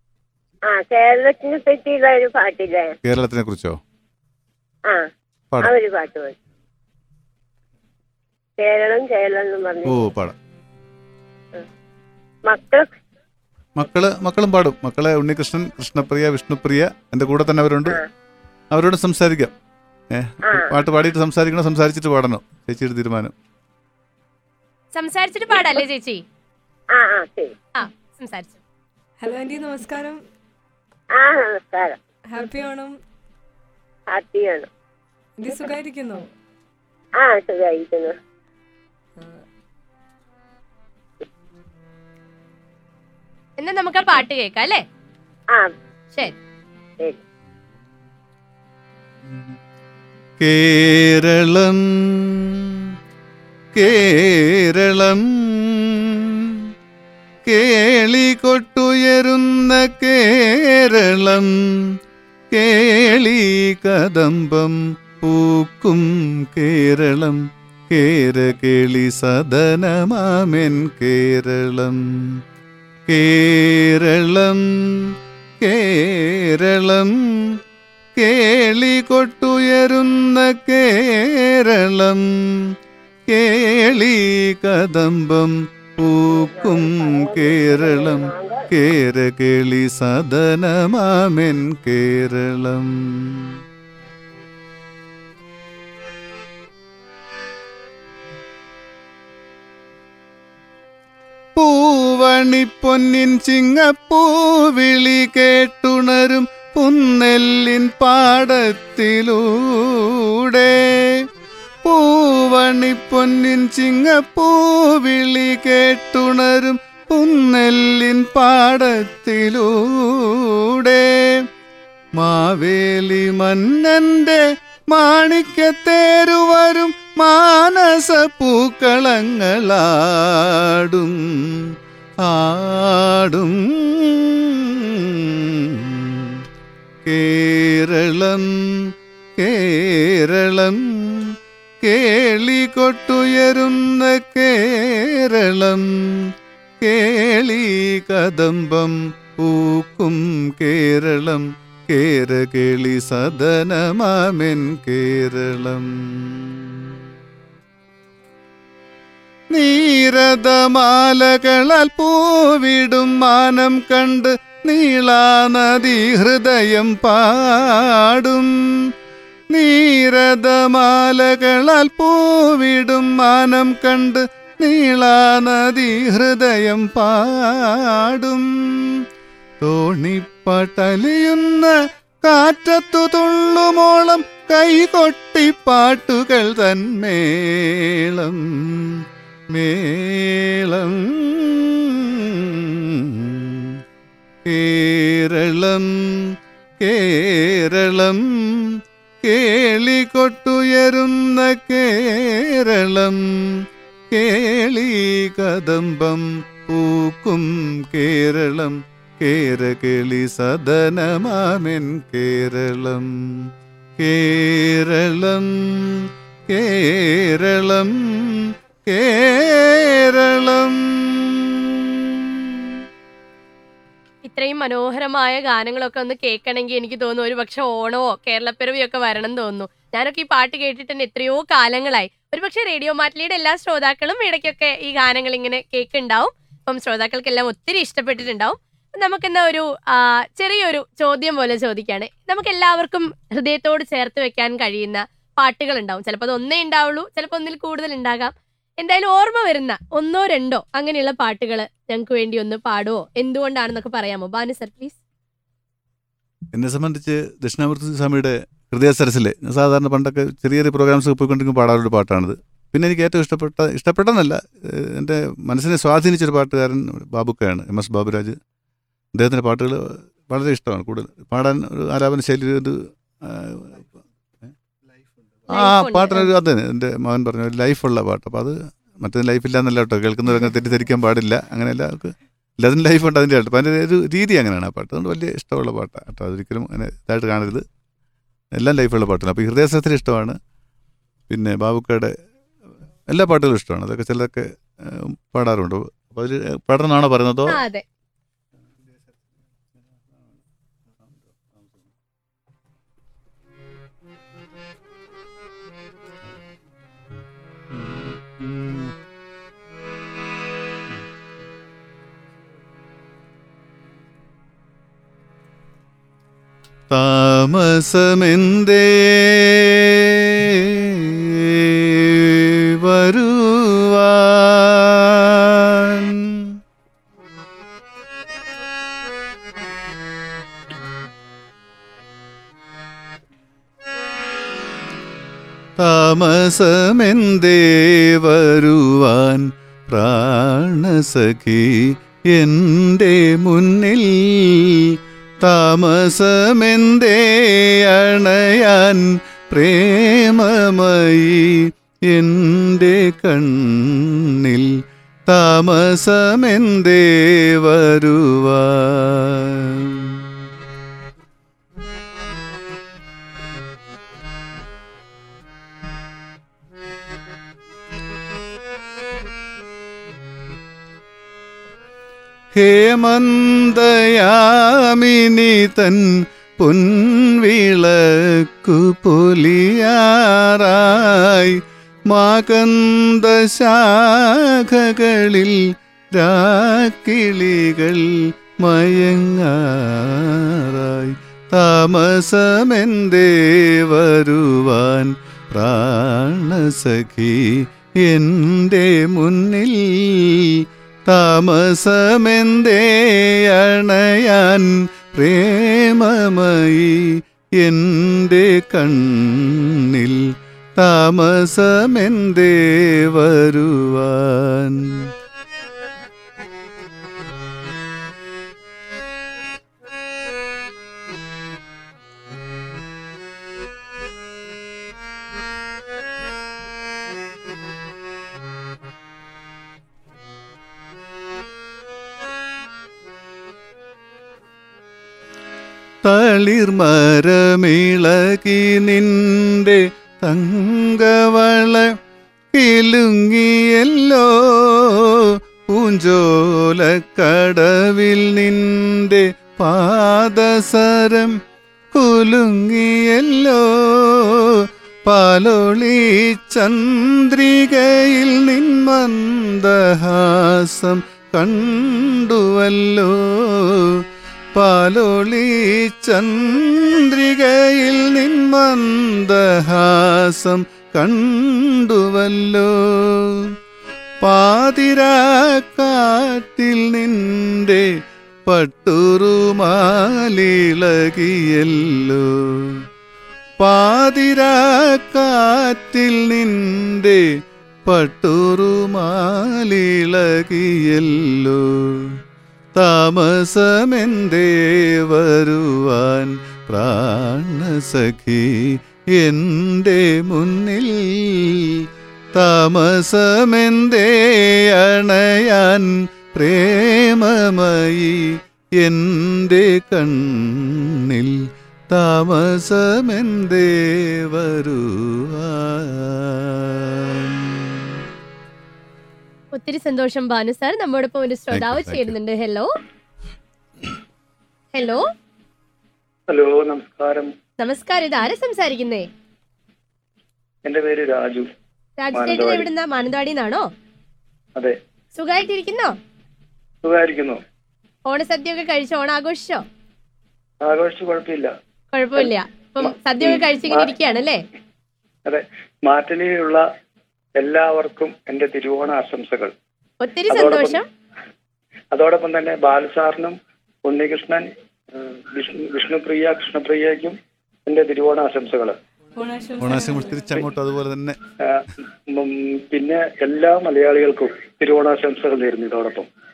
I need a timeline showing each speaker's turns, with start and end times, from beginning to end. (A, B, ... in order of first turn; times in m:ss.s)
0:00.7-0:02.9 A
0:03.0-0:03.8 B
0:05.6-0:06.4 A
0:08.6-0:09.9 A
0:09.8-0:10.3 B
0:12.5-0:12.9 A
0:13.8-0:18.0 B
0:18.7-0:19.5 B
0:20.1-0:23.3 B
0:24.9-0:26.2 C
0:26.9-0:27.5 A
0:27.8-0:28.6 C
0:29.2-0:30.2 D
0:31.2-0:32.0 A
0:32.3-0:32.9 D
0:34.1-0:34.7 A
0:35.4-0:36.3 D
0:37.2-0:38.1 A
0:43.6-0:44.8 C
0:50.4-0:52.9 B
0:53.7-0:56.6 B
0:57.4-1:01.9 B
1:02.5-1:12.4 B
1:13.1-1:17.6 B
1:18.2-1:22.6 B
1:23.3-1:33.6 B
1:26.3-1:28.6 A
1:41.6-1:51.2 B
1:51.8-2:01.4 B
2:02.2-2:11.7 B
2:12.2-2:16.4 B
2:17.0-2:37.0 B
2:39.5-2:48.9 B
2:49.5-2:59.0 B
2:59.6-3:01.7 B
3:02.2-3:13.8 B
3:14.5-3:42.7 B
3:44.2-4:15.0 C
4:16.5-4:28.4 B
4:29.2-4:33.9 B
4:35.5-4:47.6 B
4:35.5-4:36.3 C
4:48.6-4:50.4 B
4:51.3-4:52.1 B
4:53.1-4:57.6 B
4:57.5-4:57.8 C
5:07.7-5:08.9 B
5:16.9-5:26.5 B
5:35.8-5:54.7 B
5:55.3-6:00.3 B
6:12.5-6:55.1 B
7:16.0-7:21.9 B
7:22.5-7:25.2 B
7:25.7-7:31.3 B
7:31.9-7:44.0 B
7:44.5-7:53.5 B
7:54.2-7:57.9 B
7:58.5-8:02.8 B
8:03.6-8:07.2 B
8:07.9-8:12.2 B
8:12.8-8:37.9 B
8:39.5-8:42.7 C
8:41.5-8:42.2 B
8:44.7-8:45.0 C
8:46.3-8:47.3 E
8:47.6-8:49.0 C
8:50.6-8:51.5 E
8:52.0-8:53.7 C
8:52.1-8:52.7 E
8:55.2-8:55.9 C
8:56.8-8:57.4 E
8:58.1-8:59.6 C
9:00.6-9:01.5 E
9:01.9-9:04.4 C
9:03.2-9:03.9 E
9:05.2-9:06.6 E
9:07.4-9:09.5 E
9:10.0-9:10.8 C
9:10.3-9:10.8 E
9:11.9-9:18.8 E
9:19.2-9:20.4 D
9:19.6-9:21.2 B
9:21.4-9:26.1 E